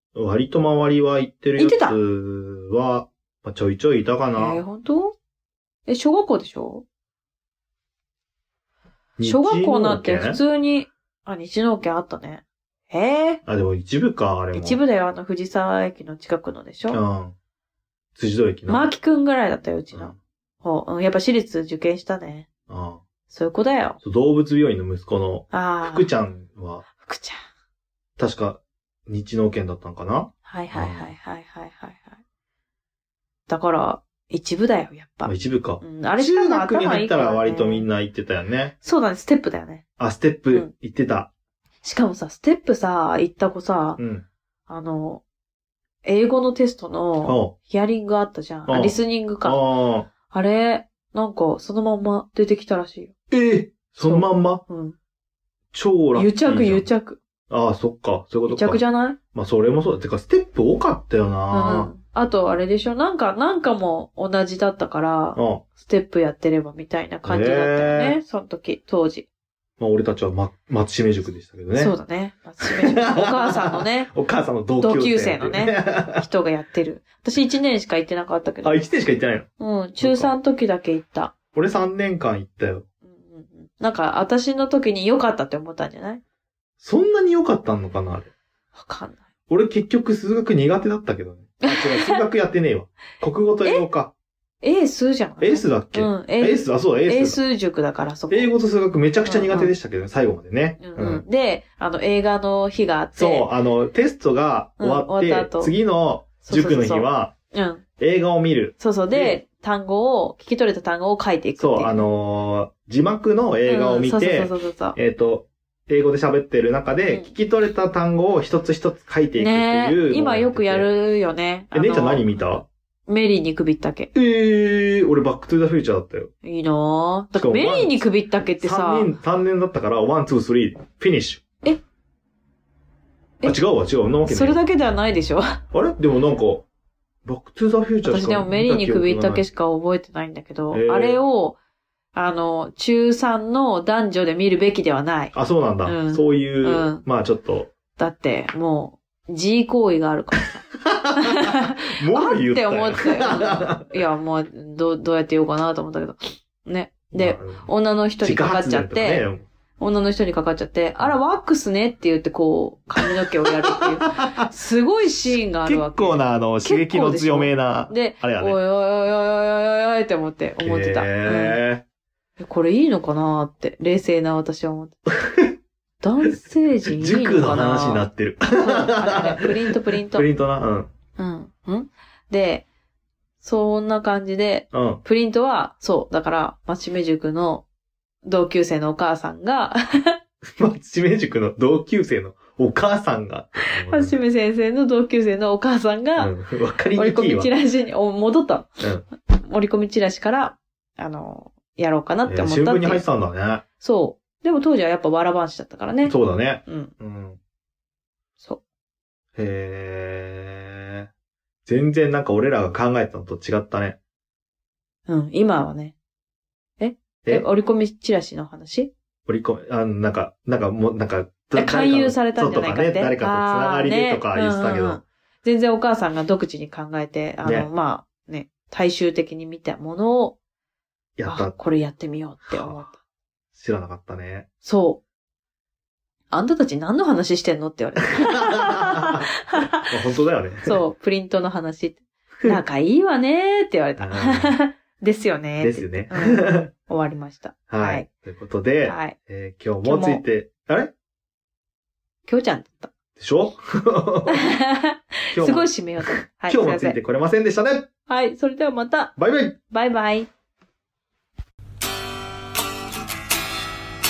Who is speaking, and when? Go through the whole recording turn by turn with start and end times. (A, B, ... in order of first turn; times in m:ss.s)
0:00.2-0:04.6 A
0:01.6-0:02.0 B
0:04.4-0:05.1 B
0:05.9-0:06.8 B
0:09.2-0:10.4 A
0:09.2-0:13.4 B
0:13.5-0:14.8 A
0:14.5-0:17.0 B
0:16.9-0:17.4 A
0:18.2-0:18.9 A
0:18.7-0:22.5 B
0:22.7-0:23.0 A
0:23.3-0:24.0 B
0:24.0-0:26.9 A
0:25.5-0:26.1 B
0:27.0-0:27.4 B
0:28.2-0:31.1 A
0:30.4-0:32.2 B
0:33.5-0:37.9 B
0:35.3-0:38.7 A
0:38.8-0:39.8 B
0:40.0-0:41.3 A
0:41.8-0:44.0 B
0:44.0-0:44.3 A
0:44.7-0:45.2 B
0:46.0-0:49.7 B
0:47.2-0:47.6 A
0:48.7-0:50.1 A
0:50.3-0:53.1 B
0:53.3-0:54.6 A
0:54.0-0:55.0 B
0:55.7-0:56.9 A
0:56.2-0:57.2 B
0:57.5-1:01.9 A
0:58.5-0:59.2 B
1:01.5-1:09.3 B
1:05.4-1:05.6 A
1:07.3-1:08.2 A
1:09.8-1:11.9 A
1:11.8-1:14.1 B
1:12.6-1:16.3 A
1:14.8-1:18.9 B
1:18.6-1:19.5 A
1:19.6-1:21.3 B
1:20.0-1:20.3 A
1:21.5-1:22.9 A
1:23.1-1:26.2 B
1:26.8-1:28.3 A
1:28.8-1:29.2 B
1:29.5-1:34.1 A
1:31.6-1:32.2 B
1:34.6-1:38.6 B
1:35.4-1:37.4 A
1:38.3-1:41.2 A
1:39.2-1:39.7 B
1:40.8-1:43.5 B
1:43.2-1:47.3 A
1:44.8-1:45.7 B
1:46.4-1:47.8 B
1:48.0-1:49.4 A
1:48.8-1:52.0 B
1:51.6-2:00.9 A
1:53.6-1:55.0 B
1:59.4-2:02.4 B
2:01.7-2:02.7 A
2:03.1-2:04.1 B
2:04.1-2:06.3 A
2:06.4-2:09.1 B
2:07.4-2:08.0 A
2:08.6-2:11.4 A
2:13.4-2:14.6 A
2:14.3-2:15.6 B
2:15.7-2:16.7 A
2:17.2-2:19.4 A
2:18.0-2:21.6 B
2:20.7-2:21.2 A
2:22.1-2:27.0 B
2:25.3-2:27.7 A
2:28.0-2:30.6 B
2:30.8-2:34.0 A
2:31.2-2:39.2 B
2:37.1-2:37.7 A
2:38.2-2:39.5 A
2:39.8-2:51.6 B
2:43.0-2:44.5 A
2:45.1-2:48.6 A
2:50.6-2:51.8 A
2:52.4-2:55.0 B
2:56.0-2:58.0 B
2:56.8-3:00.9 A
2:58.6-3:00.3 B
3:01.2-3:02.7 B
3:03.4-3:07.6 B
3:04.7-3:05.0 A
3:08.2-3:10.2 B
3:10.5-3:14.2 A
3:13.6-3:16.3 B
3:16.2-3:17.5 A
3:17.0-3:23.0 B
3:22.3-3:23.6 A
3:23.8-3:26.9 B
3:26.0-3:27.4 A
3:29.4-3:31.1 A
3:31.7-3:34.0 A
3:35.1-3:36.0 B
3:36.8-3:38.9 B
3:39.3-3:45.0 A
3:41.5-3:50.4 B
3:47.4-3:47.7 A
3:51.2-3:51.6 A
3:51.3-3:53.0 B
3:52.5-3:52.9 A
3:53.5-3:54.5 A
3:54.6-3:55.0 B
3:56.3-3:59.9 B
3:59.8-4:00.8 A
4:00.7-4:08.1 B
4:04.0-4:04.6 A
4:05.6-4:06.7 A
4:07.7-4:10.9 A
4:08.8-4:09.2 B
4:09.8-4:10.2 B
4:12.3-4:12.9 B
4:13.2-4:14.5 A
4:14.3-4:17.0 B
4:15.3-4:17.9 A
4:18.1-4:19.2 B
4:19.2-4:19.6 A
4:19.7-4:20.3 B